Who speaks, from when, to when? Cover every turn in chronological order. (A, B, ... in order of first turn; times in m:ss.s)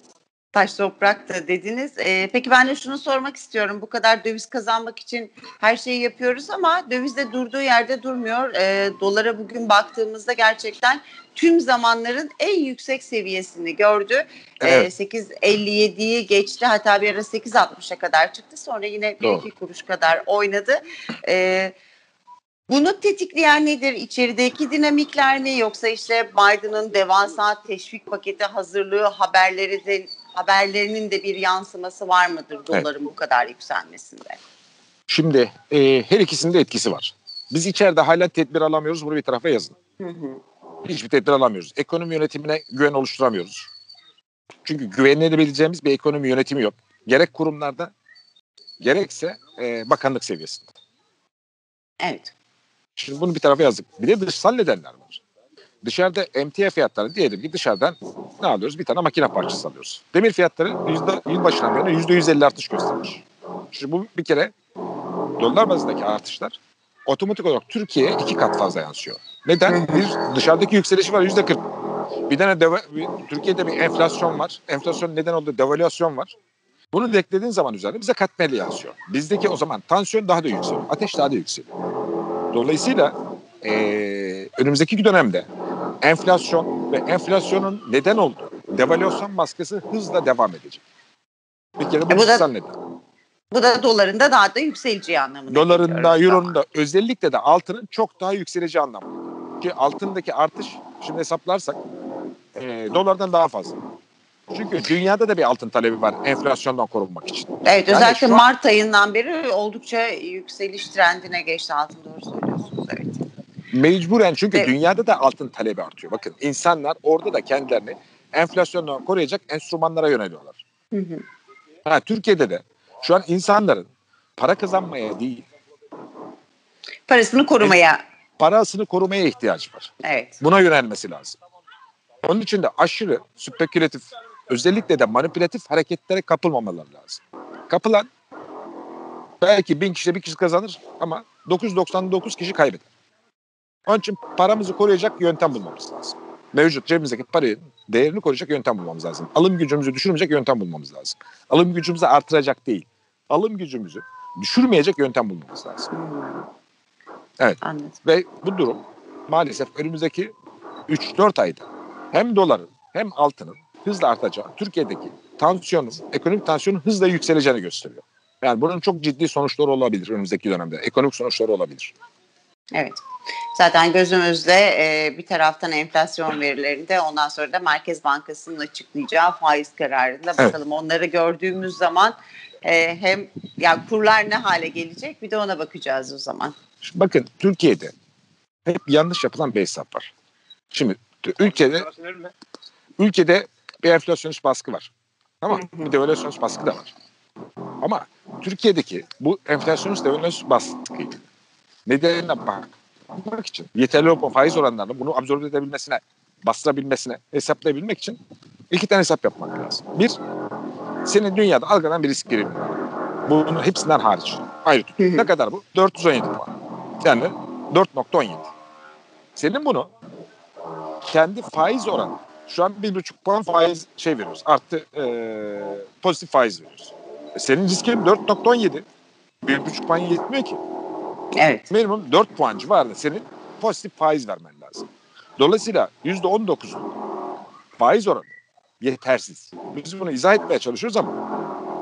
0:00.5-0:21.8 A
0:14.6-0:14.9 B
0:19.2-0:19.4 B
0:22.7-0:34.4 A
0:35.1-0:39.8 B
0:40.0-0:40.4 A
0:40.8-0:43.7 B
0:44.6-0:47.9 B
0:48.8-0:50.7 B
0:52.0-0:52.3 A
0:53.0-0:55.2 B
0:55.8-1:04.5 B
1:05.4-1:06.6 B
1:07.1-1:11.6 B
1:09.7-1:10.0 A
1:12.3-1:16.3 B
1:16.9-1:21.7 B
1:22.5-1:25.4 B
1:26.0-1:30.8 B
1:31.8-1:32.7 B
1:32.1-1:32.4 A
1:33.5-1:36.5 A
1:35.5-1:41.8 B
1:42.5-1:43.8 B
1:44.5-1:48.4 B
1:47.6-1:53.2 A
1:53.7-2:00.6 B
2:00.9-2:01.2 A
2:01.8-2:03.8 B
2:04.4-2:05.4 B
2:07.1-2:08.0 A
2:08.4-2:11.4 B
2:10.0-2:10.4 A
2:12.2-2:18.1 B
2:19.4-2:22.8 B
2:23.9-2:35.9 B
2:35.9-2:36.4 A
2:37.4-2:40.3 B
2:37.6-2:38.0 A
2:40.9-2:51.9 B
2:52.7-2:53.0 A
2:53.5-3:06.5 A
3:06.8-3:07.9 B
3:08.6-3:10.1 B
3:10.7-3:11.9 B
3:13.0-3:16.9 B
3:15.5-3:15.9 A
3:17.8-3:21.2 B
3:21.8-3:28.2 B
3:28.7-3:30.2 B
3:31.0-3:38.5 B
3:35.0-3:35.3 A
3:39.4-3:39.9 B
3:41.0-3:48.8 B
3:49.4-3:50.6 B
3:51.4-3:51.6 A
3:51.7-3:56.9 B
3:57.8-4:01.2 B